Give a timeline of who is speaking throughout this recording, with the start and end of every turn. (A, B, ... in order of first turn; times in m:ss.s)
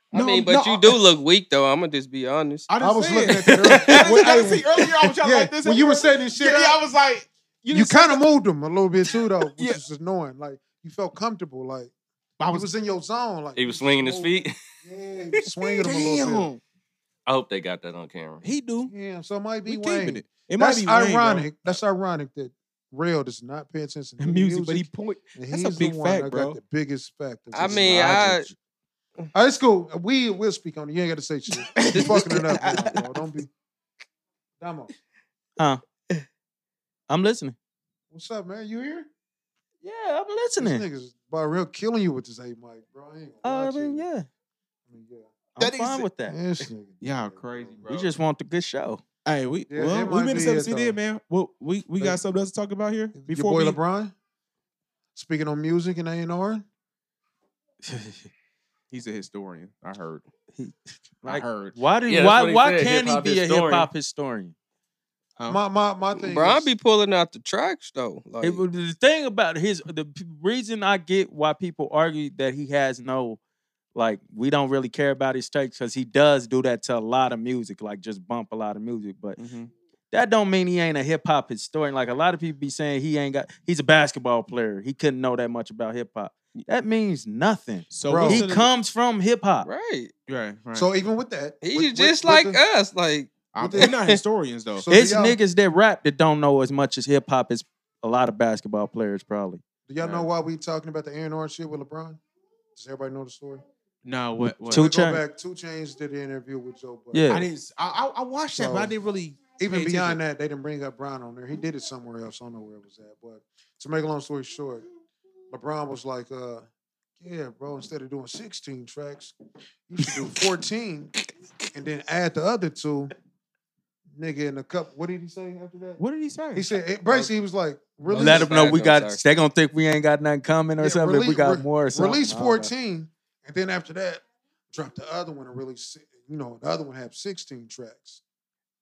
0:00.1-0:02.7 A
0:00.1-0:01.0 B
0:02.7-0:08.2 B
0:02.8-0:06.8 C
0:03.9-0:04.2 A
0:07.7-0:11.9 C
0:09.1-0:09.8 B
0:12.4-0:12.7 B
0:12.5-0:16.5 C
0:13.6-0:14.6 D
0:15.8-0:16.6 B
0:17.3-0:18.4 D
0:18.4-0:18.9 B
0:18.9-0:28.3 C
0:19.7-0:21.7 B
0:24.2-0:26.6 B
0:27.5-0:28.5 A
0:27.6-0:28.5 E
0:29.3-0:33.5 C
0:31.6-0:33.1 B
0:34.6-0:34.9 C
0:37.1-0:37.6 E
0:38.1-0:39.1 C
0:39.8-0:40.9 E
0:40.6-0:44.1 C
0:43.4-0:44.3 E
0:44.9-0:45.3 C
0:45.6-0:46.4 E
0:45.6-0:46.1 B
0:46.2-0:47.8 C
0:47.0-0:48.1 B
0:47.9-0:49.0 E
0:49.2-0:53.8 B
0:49.7-0:51.0 C
0:53.2-0:54.1 C
0:55.2-0:56.6 C
0:57.8-0:58.3 E
0:58.9-1:00.3 B
1:00.5-1:04.6 E
1:01.2-1:01.8 B
1:02.1-1:03.9 D
1:05.5-1:06.7 C
1:06.2-1:08.6 A
1:08.4-1:13.4 E
1:14.0-1:19.4 E
1:19.4-1:19.7 B
1:20.1-1:29.7 E
1:27.9-1:28.7 B
1:28.1-1:28.5 C
1:29.6-1:30.1 A
1:30.3-1:30.9 B
1:30.8-1:32.6 C
1:31.6-1:34.2 A
1:33.5-1:34.9 B
1:33.6-1:34.0 C
1:34.8-1:35.4 C
1:34.9-1:39.6 E
1:39.9-1:42.2 C
1:40.0-1:40.3 B
1:42.8-1:43.6 C
1:44.0-1:44.9 B
1:44.6-1:45.2 E
1:44.7-1:47.3 C
1:47.1-1:47.5 E
1:47.3-1:50.2 B
1:48.6-1:49.0 C
1:49.6-1:54.8 C
1:55.5-1:56.7 C
1:57.2-1:59.4 C
1:59.9-2:01.1 C
2:01.7-2:03.1 C
2:04.2-2:06.0 C
2:06.0-2:07.3 B
2:06.5-2:08.7 C
2:08.1-2:09.2 A
2:08.1-2:12.7 E
2:10.8-2:18.2 C